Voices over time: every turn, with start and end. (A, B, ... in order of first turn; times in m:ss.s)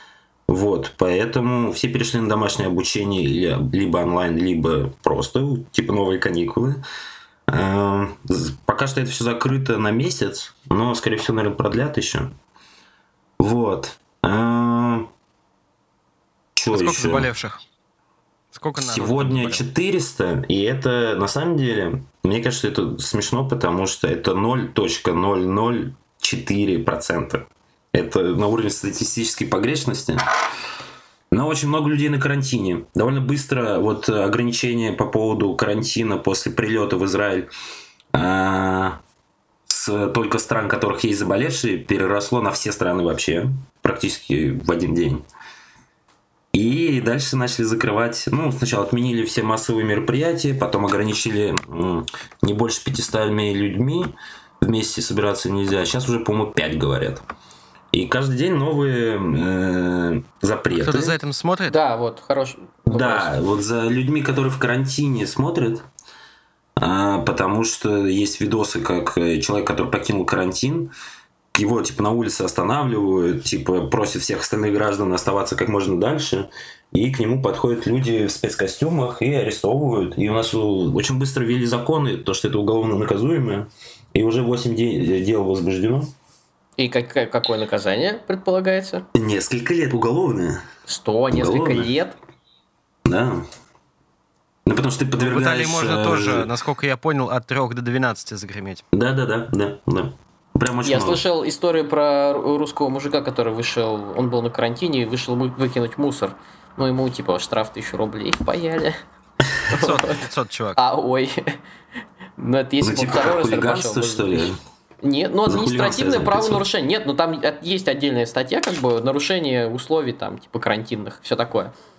0:00.5-0:06.8 A
0:07.5-0:12.3 A
0:13.4-0:15.1 A
0:16.6-0:17.3 A
0:16.7-0:17.6 B
0:18.5-0:19.6 B
0:18.8-0:30.2 A
0:31.3-0:37.5 A
0:38.1-0:39.0 A
0:39.7-0:45.2 A
0:46.5-0:57.2 A
0:57.9-1:01.2 A
1:00.8-1:01.8 B
1:01.7-1:03.4 C
1:02.9-1:05.9 A
1:06.8-1:10.9 A
1:11.5-1:26.1 A
1:26.8-1:29.1 C
1:29.1-1:30.6 A
1:30.9-1:32.2 C
1:31.3-1:31.9 A
1:33.0-1:33.4 A
1:34.6-1:36.5 A
1:35.2-1:38.8 B
1:38.9-1:41.2 A
1:40.8-1:49.0 C
1:49.7-1:50.2 C
1:49.7-1:50.8 B
1:50.8-1:51.6 C
1:52.4-2:01.7 C
1:52.8-1:54.6 A
1:55.4-1:56.6 A